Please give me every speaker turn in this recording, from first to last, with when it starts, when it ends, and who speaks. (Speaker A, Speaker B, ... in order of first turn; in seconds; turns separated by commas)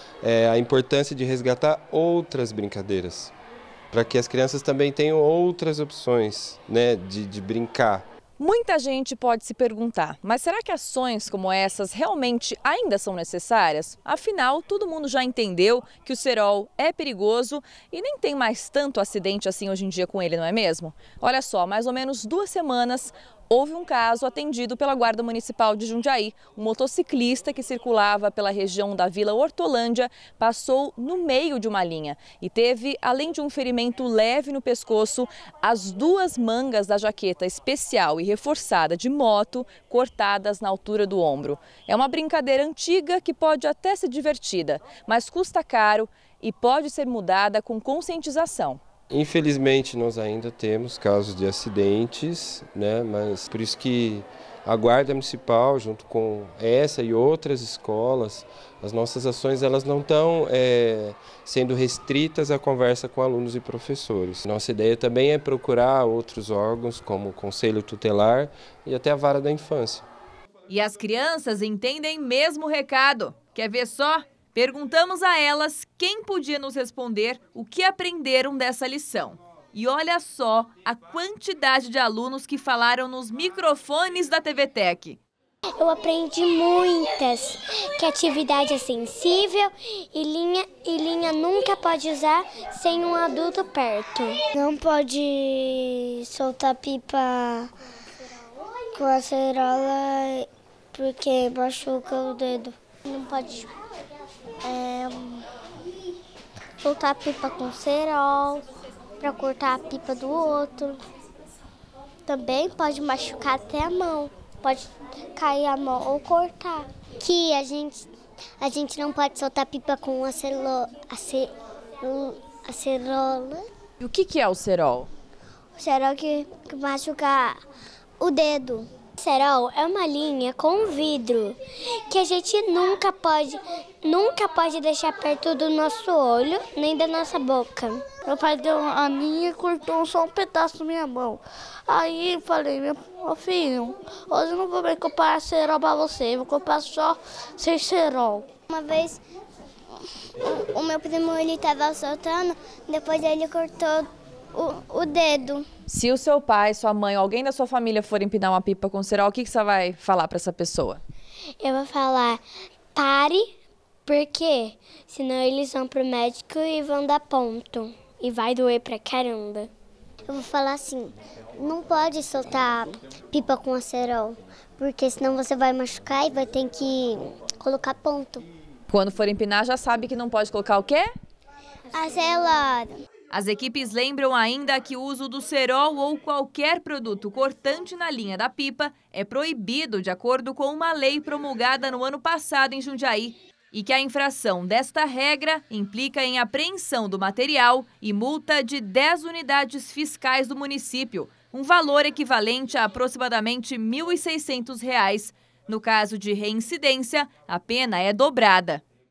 Speaker A: 0.2-3.3, Speaker A: 3.9-8.0, Speaker B: 8.4-48.8, Speaker A: 49.1-70.1, Speaker B: 70.7-85.2, Speaker C: 85.8-97.7, Speaker C: 98.9-103.7, Speaker C: 104.6-105.5, Speaker C: 106.8-108.6, Speaker C: 109.2-111.0, Speaker C: 112.3-118.1, Speaker C: 118.6-121.5, Speaker C: 122.0-123.7, Speaker B: 124.0-125.1, Speaker C: 125.8-127.6, Speaker C: 128.2-131.6, Speaker C: 132.1-138.0, Speaker D: 138.3-148.5, Speaker C: 148.7-149.2, Speaker C: 150.4-155.7, Speaker B: 155.9-161.0, Speaker C: 161.6-162.4, Speaker C: 162.9-163.5, Speaker C: 164.1-169.7, Speaker C: 170.3-178.4, Speaker B: 178.9-181.1, Speaker C: 181.9-183.0, Speaker B: 183.3-208.8